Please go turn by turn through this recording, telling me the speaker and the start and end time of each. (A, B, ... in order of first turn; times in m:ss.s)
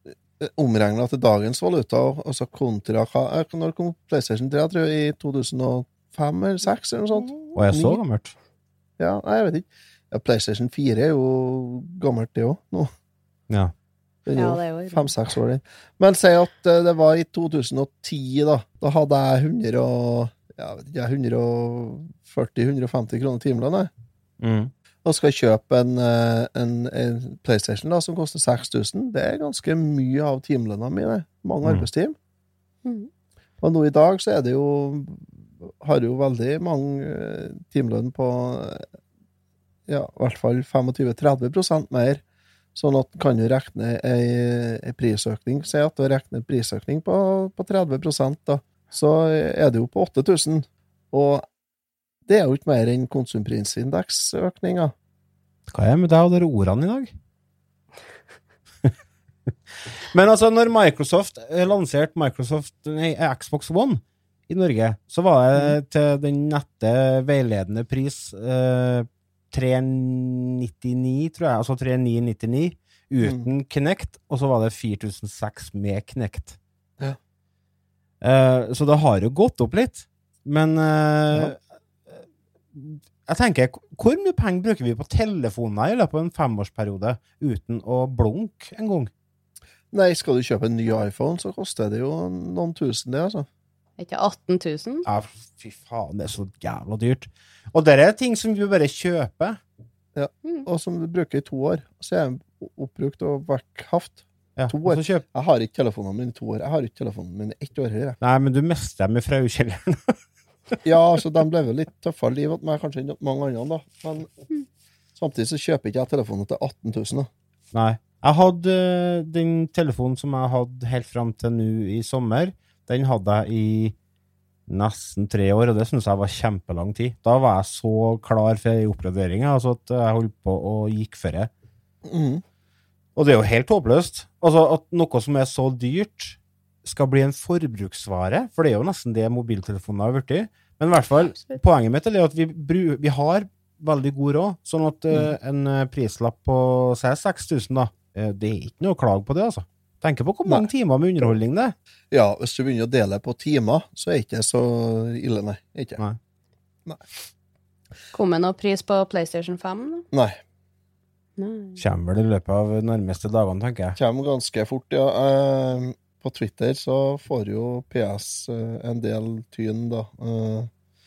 0:00.4-0:08.0 A
0:07.5-0:08.3 B
0:09.0-0:12.9 A
0:14.2-0:23.9 A
0:14.4-0:15.1 C
0:24.4-0:24.7 B
0:25.0-0:32.2 A
0:32.8-0:33.1 C
0:33.6-0:38.9 A
0:39.9-0:42.2 A
0:42.7-0:51.5 A
0:52.2-0:54.9 A
0:55.7-0:57.1 B
1:00.1-1:16.6 B
1:18.2-1:21.6 B
1:22.7-1:29.1 B
1:29.9-1:33.5 A
1:34.0-1:35.0 C
1:35.0-1:39.6 B
1:40.1-1:48.2 A
1:44.6-1:45.2 B
1:48.2-1:50.2 B
1:50.8-1:54.3 A
1:55.2-1:57.3 A
1:57.7-2:03.9 B
2:04.7-2:11.5 B
2:12.0-2:12.4 A
2:13.2-2:31.7 B
2:21.2-2:21.6 C
2:32.1-2:36.0 A
2:38.1-2:40.0 C
2:40.1-2:40.4 A
2:41.4-2:41.8 C
2:41.8-2:44.0 B
2:44.0-2:50.7 A